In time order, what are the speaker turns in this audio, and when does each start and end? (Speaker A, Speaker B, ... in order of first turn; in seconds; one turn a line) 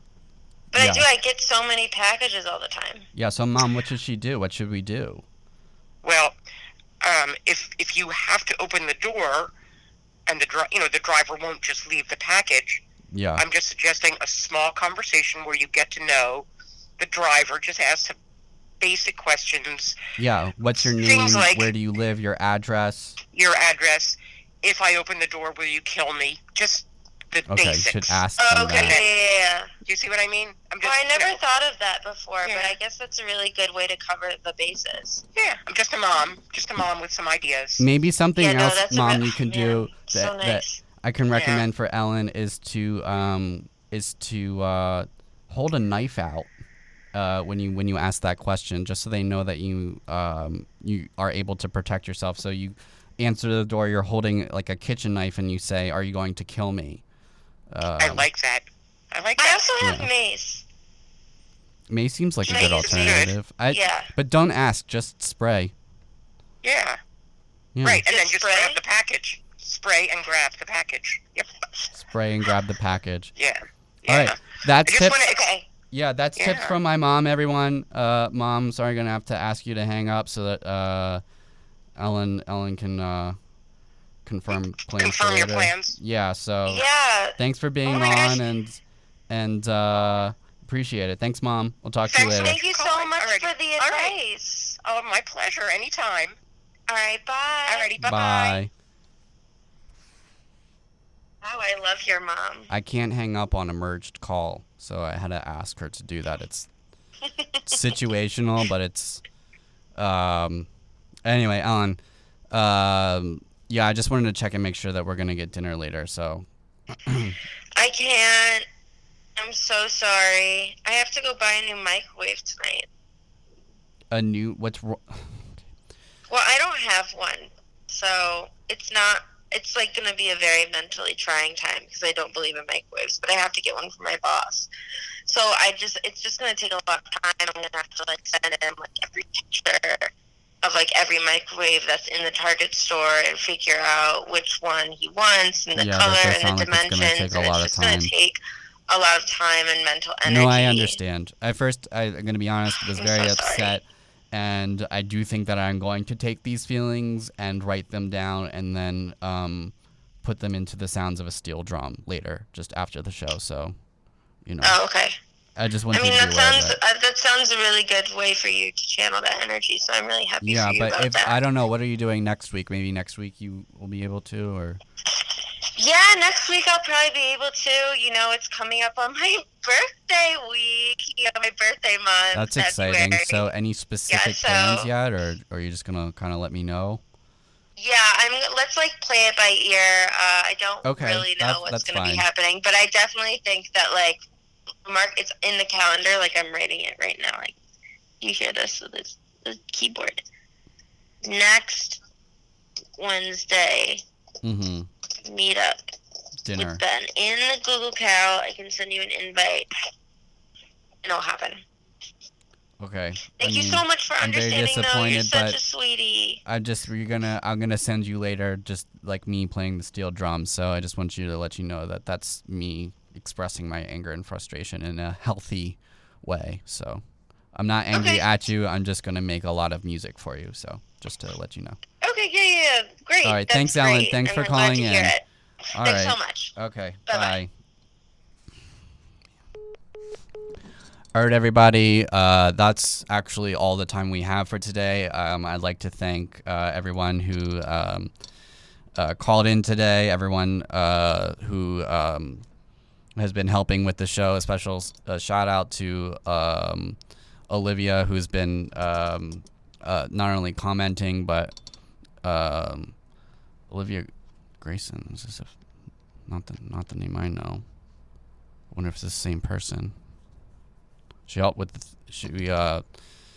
Speaker A: 0.7-3.1
Speaker B: 0.7-1.1
Speaker B: 3.1-5.2
Speaker C: 6.0-6.3
Speaker C: 7.0-9.5
Speaker C: 10.3-12.8
Speaker B: 13.1-13.4
Speaker C: 13.4-16.5
Speaker C: 17.0-18.2
Speaker C: 18.8-19.9
Speaker B: 20.2-23.2
Speaker C: 20.8-21.7
Speaker C: 23.3-29.1
Speaker B: 27.5-29.0
Speaker A: 28.4-29.7
Speaker C: 29.8-31.4
Speaker A: 30.8-35.2
Speaker C: 32.4-32.8
Speaker C: 35.3-37.9
Speaker B: 37.8-46.5
Speaker A: 38.4-40.8
Speaker C: 41.3-41.6
Speaker B: 47.1-57.0
Speaker B: 57.7-58.3
Speaker C: 58.0-59.7
Speaker A: 59.4-60.6
Speaker B: 59.8-60.1
Speaker B: 61.9-65.7
Speaker A: 62.5-64.1
Speaker C: 62.5-63.3
Speaker C: 66.6-67.0
Speaker B: 67.7-68.0
Speaker C: 67.8-71.6
Speaker A: 68.0-68.8
Speaker B: 71.9-73.3
Speaker C: 73.3-75.7
Speaker B: 74.1-75.2
Speaker B: 75.9-81.2
Speaker C: 76.3-76.8
Speaker B: 82.0-83.4
Speaker B: 84.2-92.6
Speaker C: 84.9-86.0
Speaker A: 86.7-88.4
Speaker C: 92.1-94.2
Speaker A: 92.1-94.8
Speaker C: 94.8-96.3
Speaker A: 96.9-98.0
Speaker C: 97.7-98.6
Speaker B: 98.0-98.7
Speaker A: 101.4-102.7
Speaker B: 102.7-106.7
Speaker B: 107.7-109.2
Speaker B: 110.0-110.7
Speaker B: 111.2-112.0
Speaker B: 112.5-117.4
Speaker A: 117.8-118.7
Speaker A: 119.4-122.9
Speaker B: 124.1-125.7
Speaker A: 126.3-134.7
Speaker A: 135.3-151.0
Speaker B: 145.8-148.1
Speaker B: 150.2-163.8
Speaker A: 152.9-153.8
Speaker B: 164.4-164.8
Speaker A: 164.6-165.2
Speaker B: 165.6-166.8
Speaker A: 165.9-171.4
Speaker B: 170.4-174.8
Speaker A: 175.8-183.5
Speaker B: 182.3-187.0
Speaker A: 184.1-184.9
Speaker A: 187.8-194.2
Speaker B: 190.8-192.3
Speaker A: 194.8-197.5
Speaker A: 198.2-200.2
Speaker A: 201.2-202.0
Speaker A: 203.0-204.0
Speaker B: 204.4-204.9
Speaker A: 205.2-205.8
Speaker B: 206.4-206.8
Speaker A: 206.5-209.7
Speaker A: 211.0-211.6
Speaker B: 212.8-215.6
Speaker A: 213.4-216.4
Speaker B: 216.4-231.8
Speaker A: 227.9-228.2
Speaker A: 232.0-235.2
Speaker B: 233.2-235.2
Speaker B: 235.7-237.5
Speaker A: 235.8-236.5
Speaker A: 237.1-237.4
Speaker B: 241.1-248.1
Speaker B: 248.9-252.4
Speaker B: 253.2-257.0
Speaker B: 257.5-261.5
Speaker B: 262.2-263.0
Speaker B: 263.7-265.6
Speaker B: 266.3-267.6
Speaker B: 268.7-269.9
Speaker B: 271.3-272.8